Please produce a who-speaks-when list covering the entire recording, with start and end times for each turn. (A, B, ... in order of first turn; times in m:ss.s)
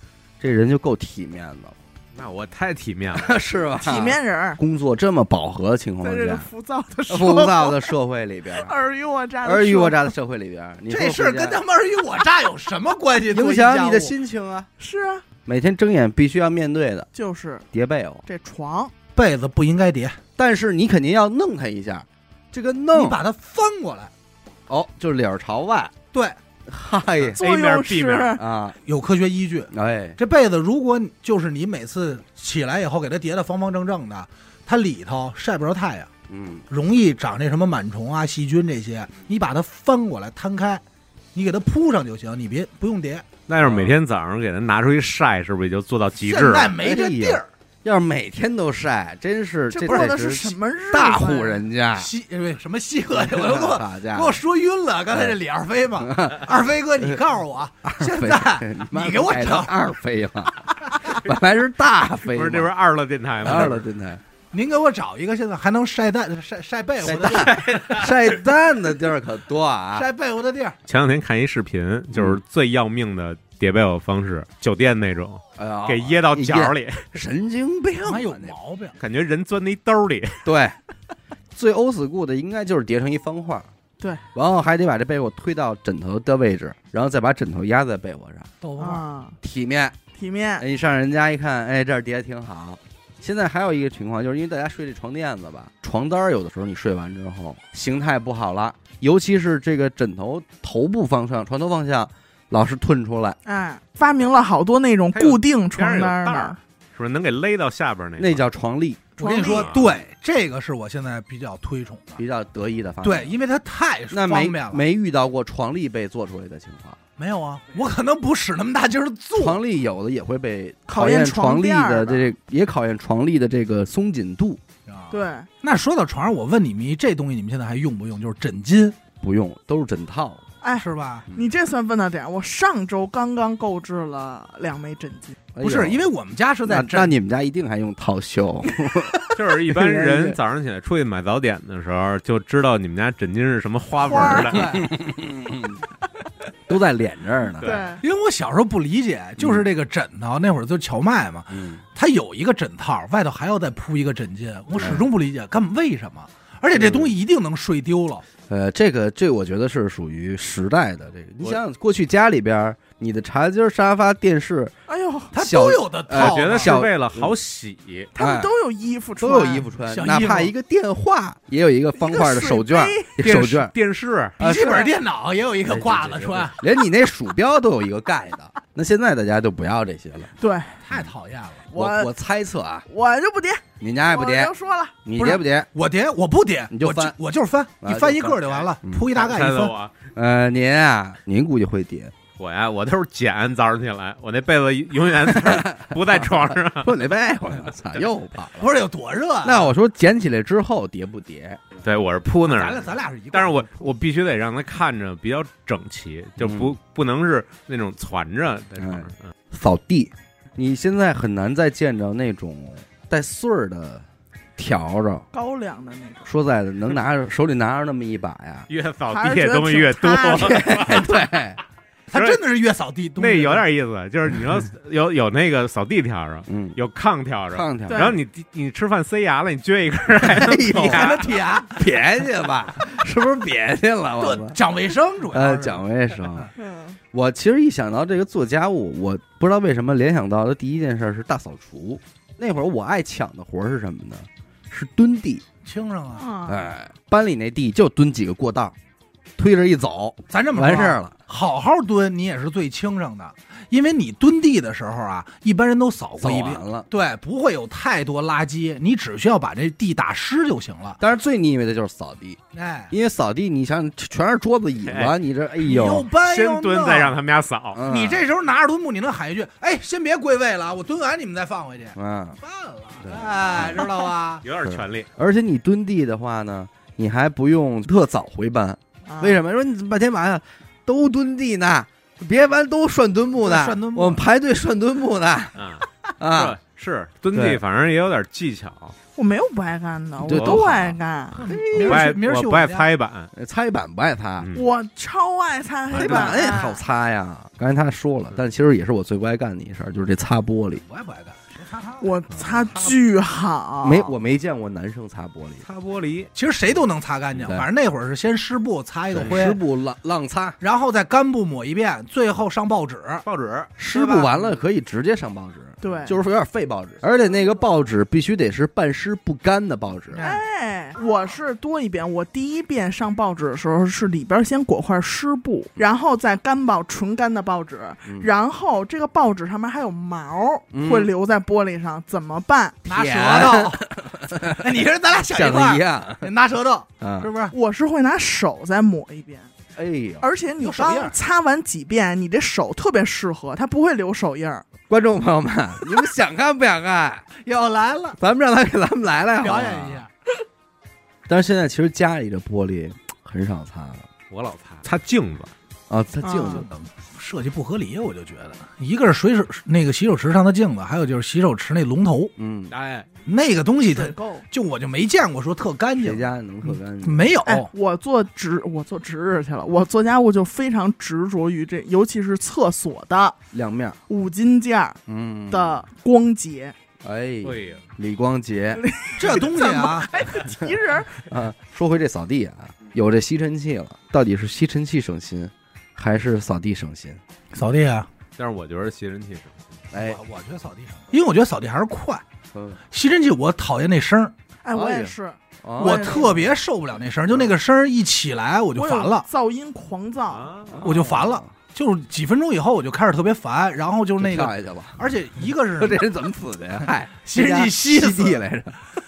0:00.4-0:01.8 A
0:02.1-0:03.4 B
0:03.1-0:06.5 A
0:03.8-0:04.6 C
0:06.0-0:07.9 C
0:07.1-0:08.7 A
0:08.5-0:10.1 C
0:09.4-0:11.6 A
0:10.9-0:14.1 D
0:13.3-0:14.7 A
0:14.8-0:15.2 C
0:15.4-0:17.1 A
0:17.1-0:17.6 C
0:17.7-0:18.2 A
0:18.2-0:18.9 C
0:19.1-0:20.2 D
0:20.4-0:23.2 A
0:22.9-0:24.1 D
0:24.7-0:25.9 A
0:26.1-0:26.4 D
0:26.7-0:27.4 A
0:27.2-0:28.4 B
0:27.4-0:28.4 C
0:28.3-0:28.8 A
0:28.8-0:36.1 D
0:29.7-0:30.2 A
0:36.3-0:36.6 A
0:36.7-0:40.8 D
0:41.3-0:43.3 D
0:43.5-0:46.8 B
0:43.6-0:43.9 A
0:46.2-0:47.5 D
0:46.7-0:52.1 A
0:49.7-0:51.6 C
0:52.0-0:59.8 D
0:53.1-0:54.4 A
0:55.1-0:55.4 A
0:56.0-0:56.5 A
0:57.8-1:02.7 A
1:02.3-1:03.8 B
1:03.4-1:04.2 A
1:04.5-1:07.6 D
1:07.0-1:10.1 A
1:07.3-1:08.2 B
1:09.9-1:10.8 D
1:10.9-1:17.1 B
1:12.1-1:12.4 A
1:15.6-1:18.6 A
1:18.0-1:19.0 D
1:19.0-1:20.4 B
1:20.4-1:20.8 A
1:21.5-1:23.7 A
1:24.3-1:28.5 A
1:28.6-1:29.0 D
1:28.8-1:29.4 C
1:29.4-1:30.0 A
1:30.1-1:30.6 C
1:30.6-1:43.4 A
1:43.4-1:46.6 C
1:45.1-1:48.4 B
1:48.2-1:49.1 A
1:49.2-1:49.7 C
1:49.2-1:52.2 D
1:49.4-1:50.0 B
1:52.2-1:53.3 A
1:53.0-1:54.8 D
1:54.1-1:57.0 A
1:57.2-1:59.6 D
1:59.4-2:04.6 A
2:00.9-2:02.3 C
2:04.9-2:09.0 D
2:05.1-2:05.5 C
2:09.2-2:10.4 A
2:10.6-2:15.4 C
2:10.8-2:11.3 D
2:15.5-2:16.0 A
2:15.6-2:17.1 D
2:16.7-2:20.4 A
2:19.3-2:24.8 B
2:24.0-2:24.6 C
2:24.2-2:25.8 A
2:24.2-2:24.9 D
2:26.7-2:27.8 A
2:27.6-2:27.9 B
2:27.6-2:28.0 C
2:28.0-2:38.2 D
2:29.4-2:29.7 A
2:31.5-2:31.8 A
2:34.8-2:35.1 A
2:36.7-2:37.1 A
2:38.5-2:44.7 A
2:44.9-2:45.3 C
2:45.3-2:47.3 A
2:45.3-2:46.8 D
2:46.1-2:48.1 B
2:48.2-2:49.7 C
2:48.2-2:48.5 A
2:49.2-2:53.7 A
2:49.8-2:50.5 D
2:51.9-2:53.1 C
2:53.2-2:54.4 B
2:54.4-2:56.6 D
2:54.4-2:54.7 A
2:54.4-2:54.9 C
2:55.7-3:00.3 A
3:00.4-3:00.8 C
3:00.8-3:01.7 D
3:01.7-3:02.1 C
3:01.7-3:02.8 A
3:02.9-3:04.9 C
3:03.8-3:04.5 A
3:05.0-3:05.7 A
3:05.2-3:09.7 D
3:06.7-3:07.1 A
3:07.8-3:09.1 A
3:09.1-3:09.9 B
3:10.1-3:12.1 A
3:12.4-3:16.9 B
3:15.3-3:18.7 A
3:18.6-3:19.7 D
3:19.4-3:21.6 A
3:21.8-3:29.3 B
3:22.4-3:23.7 D
3:26.4-3:26.7 A
3:28.8-3:34.0 A
3:34.6-3:35.2 A
3:35.3-3:36.3 C
3:36.2-3:38.7 A
3:38.7-3:41.2 B
3:39.1-3:40.9 C
3:40.3-3:41.6 A
3:42.1-3:42.4 B
3:42.1-3:43.7 D
3:43.2-3:51.4 B
3:46.5-3:46.8 A
3:47.5-3:48.2 A
3:47.9-3:48.2 C
3:50.2-3:54.6 A
3:50.6-3:51.8 D
3:54.2-3:55.8 D
3:55.3-3:56.5 A
3:56.6-3:57.0 C
3:57.1-4:05.4 A
4:05.6-4:06.3 D
4:06.2-4:06.7 C
4:06.5-4:08.7 A
4:09.4-4:11.2 A
4:10.3-4:21.0 D
4:16.2-4:16.9 A
4:21.0-4:22.4 A
4:22.5-4:22.9 D
4:22.9-4:26.1 A
4:24.9-4:25.1 B
4:25.6-4:27.2 D
4:26.1-4:27.8 B
4:27.8-4:28.3 A
4:27.9-4:34.4 D
4:31.9-4:32.4 A
4:33.0-4:33.9 A
4:34.4-4:35.1 B
4:34.6-4:45.6 A
4:39.1-4:39.4 C
4:43.4-4:44.2 D
4:45.6-4:49.0 B
4:46.2-4:46.6 A
4:47.3-4:47.6 A
4:49.2-4:51.4 C
4:50.2-4:52.1 A
4:50.3-4:50.6 B
4:51.3-4:52.9 D
4:51.8-4:53.3 B
4:53.3-4:54.5 A
4:54.4-4:54.7 B
4:54.5-4:56.8 C
4:55.9-5:00.8 A
5:00.8-5:02.2 D
5:02.0-5:04.1 C
5:02.3-5:02.9 A
5:03.8-5:05.6 A
5:05.6-5:06.3 B
5:06.4-5:09.6 D
5:09.1-5:10.6 A
5:10.6-5:13.2 D
5:13.2-5:13.7 B
5:13.8-5:20.2 A
5:13.9-5:14.6 D
5:15.8-5:16.2 C
5:20.1-5:20.4 D
5:20.2-5:32.8 C
5:30.7-5:31.1 A
5:32.8-5:37.6 D
5:32.9-5:36.3 A
5:37.0-5:37.3 A
5:37.5-5:39.5 C
5:39.8-5:40.2 A
5:40.2-5:44.6 C
5:40.6-5:41.2 D
5:44.9-5:47.3 A
5:47.4-5:48.2 D
5:48.2-5:50.1 A
5:49.4-5:50.1 D
5:51.3-5:54.1 A
5:54.3-5:55.5 B
5:55.9-5:56.7 A
5:56.2-5:56.6 C
5:56.5-6:02.3 D
6:02.4-6:02.7 A
6:02.7-6:03.1 B
6:03.3-6:07.7 D
6:03.9-6:04.5 C
6:06.0-6:07.3 A
6:07.5-6:13.4 C
6:13.5-6:14.0 A
6:14.1-6:15.0 C
6:15.1-6:15.8 A
6:15.5-6:16.7 C
6:17.0-6:18.8 A
6:17.4-6:17.8 B
6:18.8-6:21.2 C
6:19.2-6:20.1 D
6:21.2-6:27.2 A
6:27.5-6:28.1 D
6:28.4-6:29.8 B
6:29.9-6:30.2 A
6:29.9-6:32.2 D
6:32.5-6:32.8 A
6:32.9-6:34.3 D
6:34.6-6:36.5 C
6:34.7-6:36.4 A
6:35.8-6:39.3 D
6:38.7-6:40.5 C
6:40.3-6:41.0 B
6:40.7-6:41.5 A
6:40.8-6:46.1 D
6:44.2-6:45.1 A
6:45.8-6:48.8 A
6:46.8-6:48.4 D